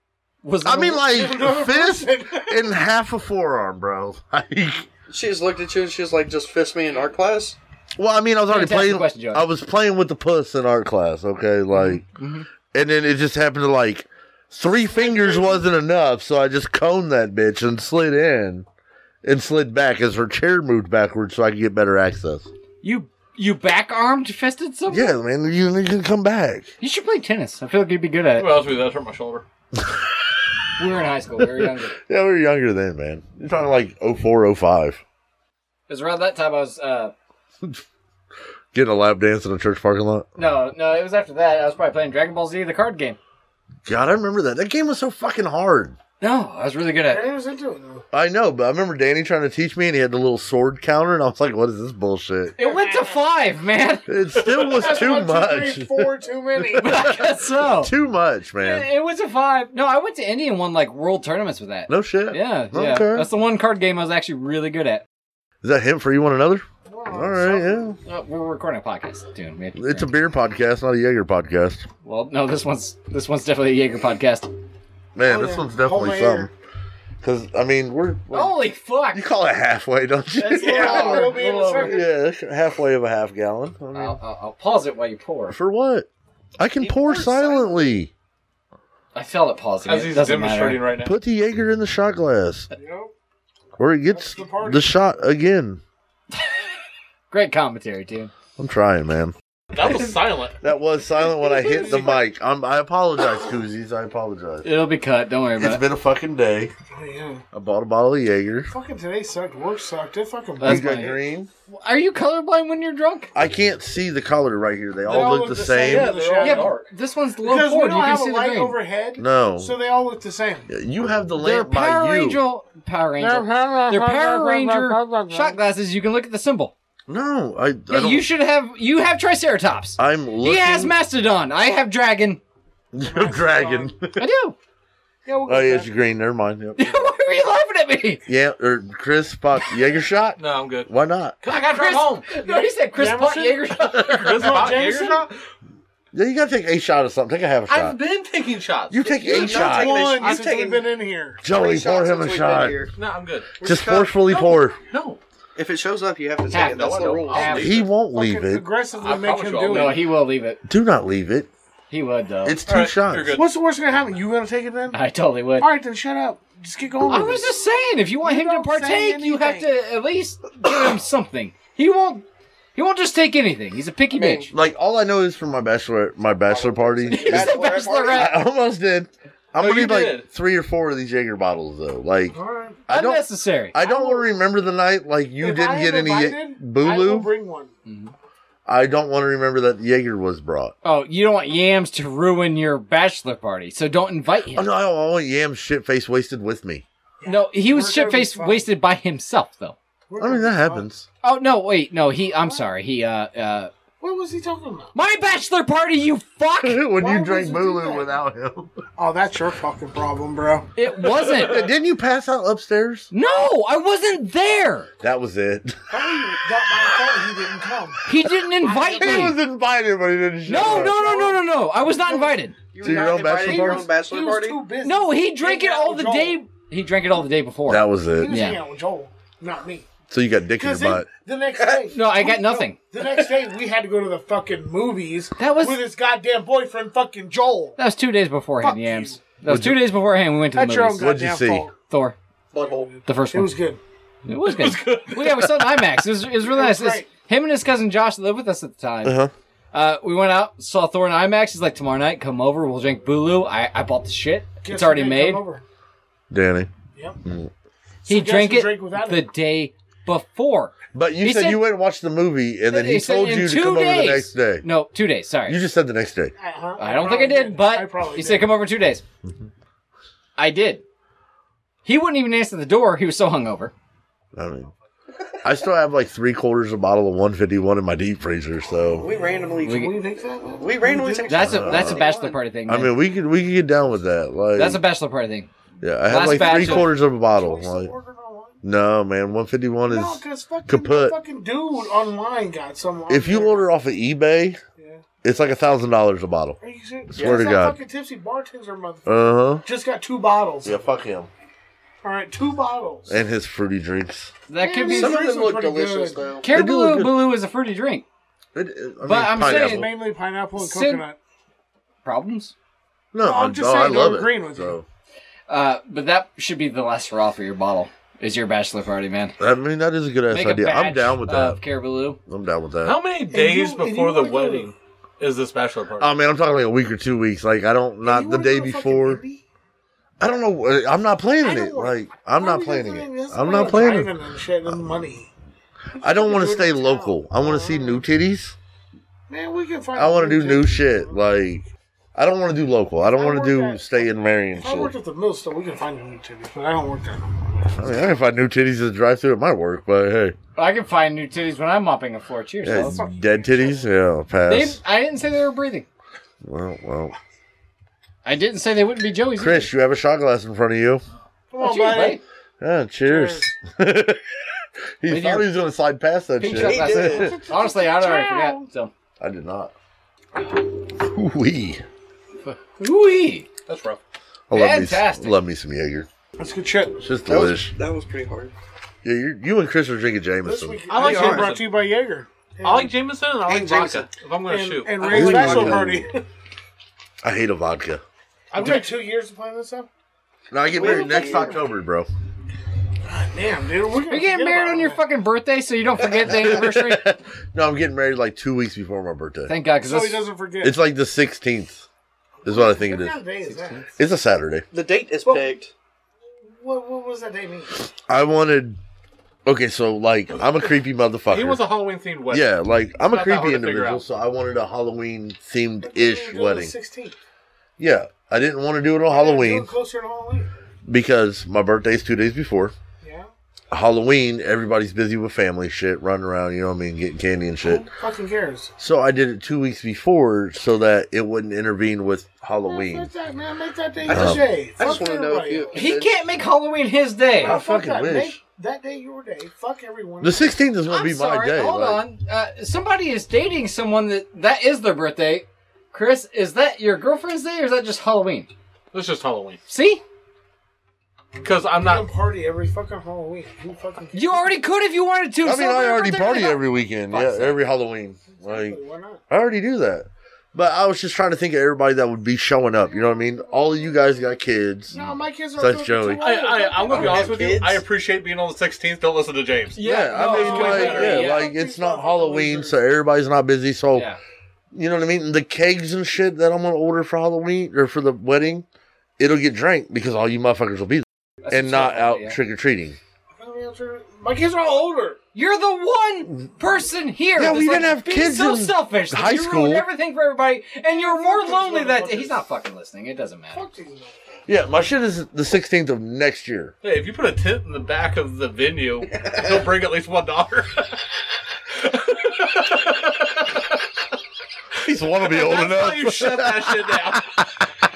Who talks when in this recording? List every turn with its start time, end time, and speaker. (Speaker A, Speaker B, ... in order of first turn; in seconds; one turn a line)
Speaker A: 0.4-1.1
Speaker B: 0.6-4.8
Speaker C: 1.1-2.7
Speaker D: 5.1-7.6
Speaker B: 8.0-12.0
Speaker A: 8.5-9.5
Speaker A: 11.7-12.5
Speaker B: 12.7-18.7
Speaker C: 14.7-15.7
Speaker B: 19.2-22.5
Speaker A: 22.8-25.1
Speaker B: 24.9-26.7
Speaker A: 26.8-28.6
Speaker E: 28.4-29.4
Speaker A: 30.8-31.9
Speaker B: 31.4-35.0
Speaker A: 35.9-37.1
Speaker B: 38.7-40.3
Speaker A: 40.4-43.2
Speaker B: 43.8-46.0
Speaker A: 46.2-47.2
Speaker C: 47.1-48.0
Speaker B: 48.1-52.5
Speaker C: 52.6-53.2
Speaker A: 52.6-54.1
Speaker B: 54.1-56.1
Speaker E: 54.4-55.1
Speaker C: 54.8-57.1
Speaker B: 56.7-58.9
Speaker A: 56.7-57.9
Speaker A: 58.6-65.0
Speaker B: 61.9-63.3
Speaker B: 65.6-68.0
Speaker C: 66.9-68.0
Speaker A: 68.0-70.1
Speaker B: 69.8-71.9
Speaker A: 72.0-74.5
Speaker B: 75.1-76.5
Speaker C: 75.2-76.5
Speaker B: 77.2-78.6
Speaker A: 78.3-79.2
Speaker B: 79.1-84.2
Speaker A: 80.4-82.0
Speaker C: 80.5-82.1
Speaker A: 83.9-85.6
Speaker B: 85.5-86.1
Speaker B: 86.6-88.1
Speaker D: 86.8-87.7
Speaker C: 87.5-87.8
Speaker A: 89.1-90.8
Speaker E: 89.8-91.1
Speaker B: 91.0-92.7
Speaker C: 92.7-93.1
Speaker B: 93.8-95.8
Speaker C: 94.1-94.9
Speaker A: 97.3-98.3
Speaker B: 98.6-100.1
Speaker E: 99.7-100.6
Speaker B: 100.6-104.7
Speaker C: 101.4-102.2
Speaker A: 104.6-105.8
Speaker B: 105.6-106.7
Speaker C: 106.9-107.4
Speaker B: 107.5-108.7
Speaker C: 108.7-111.1
Speaker A: 110.6-111.2
Speaker B: 110.6-111.5
Speaker A: 111.7-113.3
Speaker B: 113.3-116.1
Speaker C: 115.0-116.7
Speaker E: 115.8-116.9
Speaker A: 116.4-118.8
Speaker C: 117.4-120.7
Speaker B: 119.2-119.7
Speaker B: 120.7-122.4
Speaker A: 121.3-126.7
Speaker C: 123.2-125.6
Speaker B: 127.1-128.3
Speaker A: 127.9-132.4
Speaker B: 130.0-130.9
Speaker B: 132.9-134.2
Speaker C: 133.0-133.9
Speaker A: 134.2-134.6
Speaker C: 135.2-135.9
Speaker B: 135.4-137.1
Speaker A: 136.8-138.2
Speaker B: 138.3-141.3
Speaker E: 140.4-140.9
Speaker E: 141.4-142.3
Speaker A: 141.5-144.2
Speaker C: 142.3-143.8
Speaker B: 143.8-144.4
Speaker E: 144.1-145.4
Speaker C: 144.3-145.3
Speaker B: 146.1-148.0
Speaker E: 147.7-150.6
Speaker B: 148.9-150.0
Speaker D: 149.2-150.8
Speaker C: 149.5-151.4
Speaker B: 151.4-152.8
Speaker D: 151.5-152.9
Speaker E: 153.0-153.5
Speaker D: 153.6-154.4
Speaker B: 153.6-154.8
Speaker E: 154.9-155.2
Speaker D: 155.6-157.7
Speaker A: 156.5-157.8
Speaker E: 156.5-157.9
Speaker B: 157.5-158.7
Speaker C: 158.1-160.0
Speaker E: 158.9-160.0
Speaker A: 159.7-160.6
Speaker B: 160.6-161.5
Speaker A: 161.9-162.6
Speaker B: 162.4-163.4
Speaker E: 162.7-163.5
Speaker C: 163.3-165.0
Speaker A: 164.9-165.7
Speaker C: 165.6-167.5
Speaker A: 167.1-174.5
Speaker C: 168.2-169.7
Speaker D: 174.1-174.5
Speaker B: 174.5-177.6
Speaker D: 176.5-178.3
Speaker A: 177.1-178.4
Speaker B: 178.1-182.4
Speaker E: 179.6-180.3
Speaker C: 182.3-182.8
Speaker A: 182.9-183.8
Speaker B: 182.9-187.3
Speaker C: 183.8-184.3
Speaker C: 185.4-187.7
Speaker A: 187.8-188.1
Speaker B: 188.7-190.7
Speaker A: 190.8-194.7
Speaker B: 194.5-196.8
Speaker C: 197.2-198.7
Speaker A: 197.2-199.8
Speaker C: 200.1-200.8
Speaker B: 200.2-201.1
Speaker A: 201.2-203.7
Speaker C: 204.0-204.9
Speaker A: 204.9-206.8
Speaker B: 206.6-208.7
Speaker C: 207.0-208.1
Speaker C: 209.0-210.7
Speaker A: 210.8-211.7
Speaker B: 211.3-213.1
Speaker A: 213.1-214.9
Speaker B: 215.0-215.8
Speaker D: 215.9-216.4
Speaker C: 216.0-218.0
Speaker A: 218.1-219.3
Speaker C: 218.6-219.4
Speaker B: 219.0-221.4
Speaker A: 220.5-222.6
Speaker C: 220.5-221.4
Speaker D: 222.2-224.6
Speaker B: 222.8-223.9
Speaker C: 222.9-226.4
Speaker A: 224.8-228.6
Speaker B: 227.7-228.4
Speaker C: 228.2-229.9
Speaker B: 230.1-231.1
Speaker C: 230.6-237.8
Speaker D: 231.6-231.9
Speaker A: 231.9-232.8
Speaker D: 233.0-233.3
Speaker A: 235.4-235.8
Speaker A: 237.8-241.1
Speaker C: 238.6-239.2
Speaker B: 239.4-239.9
Speaker C: 240.5-241.7
Speaker B: 241.0-241.7
Speaker A: 241.9-242.2
Speaker D: 242.5-242.9
Speaker A: 243.1-243.5
Speaker C: 243.3-243.8
Speaker A: 244.2-249.2
Speaker E: 244.4-245.5
Speaker C: 246.4-247.1
Speaker B: 249.0-249.3
Speaker A: 249.7-255.4
Speaker C: 254.6-255.6
Speaker B: 256.3-256.7
Speaker B: 257.2-257.5
Speaker C: 258.0-259.3
Speaker A: 258.1-261.6
Speaker B: 260.9-264.6
Speaker A: 262.7-265.6
Speaker B: 265.5-266.3
Speaker C: 266.4-268.5
Speaker A: 266.8-269.0
Speaker A: 270.4-270.8
Speaker A: 271.8-273.7
Speaker B: 274.4-274.7
Speaker B: 275.4-279.1
Speaker D: 279.0-279.9
Speaker C: 279.6-281.8
Speaker A: 279.6-279.9
Speaker D: 280.6-282.4
Speaker A: 281.3-282.9
Speaker B: 281.5-282.1
Speaker B: 282.7-284.8
Speaker A: 284.5-285.5
Speaker B: 285.8-287.9
Speaker A: 286.1-286.9
Speaker C: 286.2-288.6
Speaker B: 288.6-291.2
Speaker C: 289.9-293.6
Speaker B: 293.1-294.6
Speaker C: 294.8-295.0
Speaker B: 295.2-296.6
Speaker C: 296.6-300.8
Speaker B: 297.1-297.8
Speaker D: 297.2-297.4
Speaker B: 299.1-299.6
Speaker B: 300.6-301.3
Speaker C: 302.0-303.2
Speaker B: 303.1-304.3
Speaker A: 304.5-305.3
Speaker C: 304.6-306.3
Speaker D: 304.8-306.5
Speaker A: 306.4-308.0
Speaker B: 306.5-307.3
Speaker B: 308.5-310.0
Speaker A: 309.0-309.9
Speaker C: 309.4-311.2
Speaker A: 310.6-311.0
Speaker A: 312.0-312.5
Speaker B: 313.1-314.8
Speaker C: 313.2-314.8
Speaker A: 315.5-319.3
Speaker B: 319.4-321.6
Speaker A: 320.3-322.2
Speaker B: 322.3-323.0
Speaker E: 322.8-326.1
Speaker C: 323.3-324.7
Speaker B: 326.0-329.2
Speaker C: 328.0-329.4
Speaker B: 330.2-334.8
Speaker C: 331.4-335.3
Speaker B: 336.0-338.6
Speaker C: 336.0-338.0
Speaker C: 339.3-341.2
Speaker B: 339.9-344.9
Speaker C: 343.1-347.9
Speaker B: 347.7-350.4
Speaker A: 350.6-353.0
Speaker B: 352.6-354.8
Speaker C: 352.7-353.9
Speaker A: 354.4-355.9
Speaker B: 356.4-357.1
Speaker A: 358.2-359.7
Speaker B: 359.4-361.0
Speaker C: 361.5-362.2
Speaker A: 361.6-362.2
Speaker B: 362.6-364.2
Speaker C: 363.1-363.5
Speaker B: 365.0-367.3
Speaker A: 365.1-365.5
Speaker A: 366.4-368.9
Speaker D: 366.5-367.4
Speaker C: 367.0-368.6
Speaker B: 369.2-369.7
Speaker B: 370.8-371.8
Speaker A: 372.4-373.5
Speaker E: 373.7-374.0
Speaker B: 374.5-376.1
Speaker A: 374.5-375.4
Speaker C: 376.4-377.0
Speaker B: 377.0-377.7
Speaker D: 377.2-378.5
Speaker B: 379.0-380.8
Speaker C: 380.4-382.9
Speaker E: 380.9-381.7
Speaker D: 381.0-381.5
Speaker E: 382.6-385.3
Speaker D: 383.5-384.1
Speaker C: 383.5-383.8
Speaker C: 384.5-386.2
Speaker D: 385.0-386.0
Speaker B: 385.1-386.0
Speaker B: 387.2-388.0
Speaker C: 388.5-389.9
Speaker B: 390.5-392.1
Speaker D: 390.7-391.6
Speaker C: 390.8-391.6
Speaker C: 393.1-395.0
Speaker A: 394.1-397.1
Speaker B: 396.1-399.5
Speaker A: 399.5-400.2
Speaker C: 399.8-400.8
Speaker B: 400.6-401.9
Speaker B: 402.4-403.2
Speaker C: 402.4-403.9
Speaker A: 403.4-403.8
Speaker B: 404.0-404.6
Speaker D: 404.7-405.7
Speaker C: 406.5-407.7
Speaker B: 408.1-408.8
Speaker B: 409.4-411.6
Speaker E: 411.3-414.0
Speaker B: 412.3-416.7
Speaker C: 415.8-417.2
Speaker B: 417.8-419.7
Speaker C: 419.1-420.5
Speaker B: 420.9-422.7
Speaker C: 423.0-423.3
Speaker B: 423.7-427.9
Speaker C: 427.9-428.7
Speaker B: 428.8-433.1
Speaker C: 432.7-435.8
Speaker D: 434.0-436.1
Speaker B: 434.1-434.4
Speaker A: 435.7-437.6
Speaker C: 437.4-440.6
Speaker B: 437.4-438.4
Speaker B: 440.2-442.0
Speaker A: 440.9-448.5
Speaker E: 448.9-449.6
Speaker A: 449.7-450.0
Speaker E: 451.4-452.1
Speaker C: 451.7-454.5
Speaker A: 454.1-457.6
Speaker B: 455.4-458.8
Speaker C: 458.3-459.2
Speaker B: 459.3-465.0
Speaker C: 464.9-467.7
Speaker B: 465.6-466.2
Speaker E: 466.2-471.3
Speaker D: 466.9-467.8
Speaker A: 469.8-471.5
Speaker B: 469.8-474.1
Speaker C: 470.3-472.8
Speaker A: 473.9-474.2
Speaker B: 474.7-478.6
Speaker B: 479.2-483.0
Speaker A: 481.4-482.4
Speaker C: 483.4-485.2
Speaker A: 485.3-493.6
Speaker B: 487.4-489.9
Speaker C: 490.9-492.4
Speaker C: 493.5-494.2
Speaker B: 494.5-496.7
Speaker E: 496.8-500.9
Speaker E: 501.8-503.7
Speaker B: 504.8-507.6
Speaker E: 505.2-507.4